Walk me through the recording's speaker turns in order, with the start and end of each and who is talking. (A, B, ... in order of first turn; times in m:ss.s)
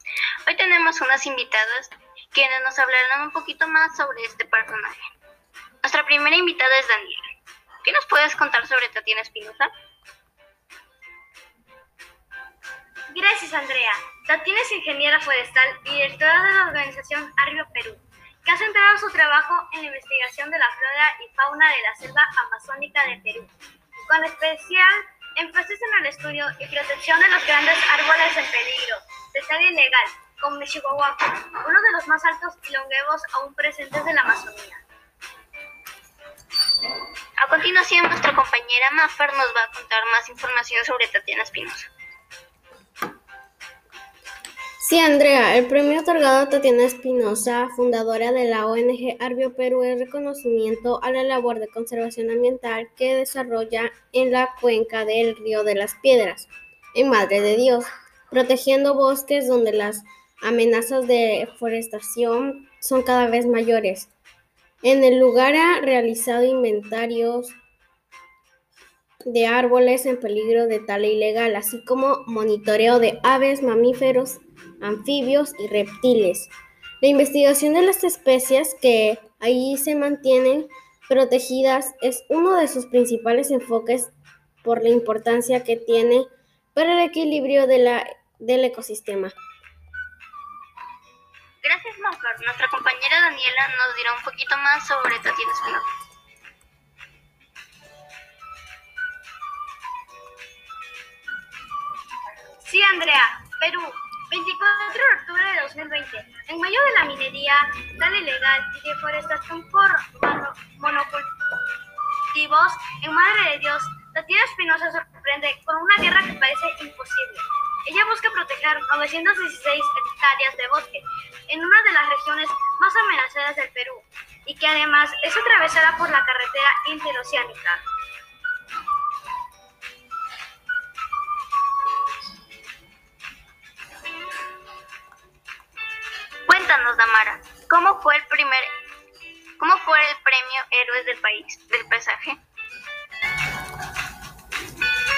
0:00.4-0:05.0 A
0:05.8-0:07.2 A
0:07.8-0:09.7 A
0:13.1-0:23.5 B
0:24.1-0:34.8 B
0:37.4-0:41.9 A
0:44.8-1:04.1 C
1:04.8-1:07.6 C
1:09.3-1:24.1 C
1:24.6-1:29.4 C
1:31.6-1:35.8 A
1:42.6-1:51.3 B
1:52.3-2:07.8 B
2:16.5-2:18.7 A
2:19.6-2:22.4 A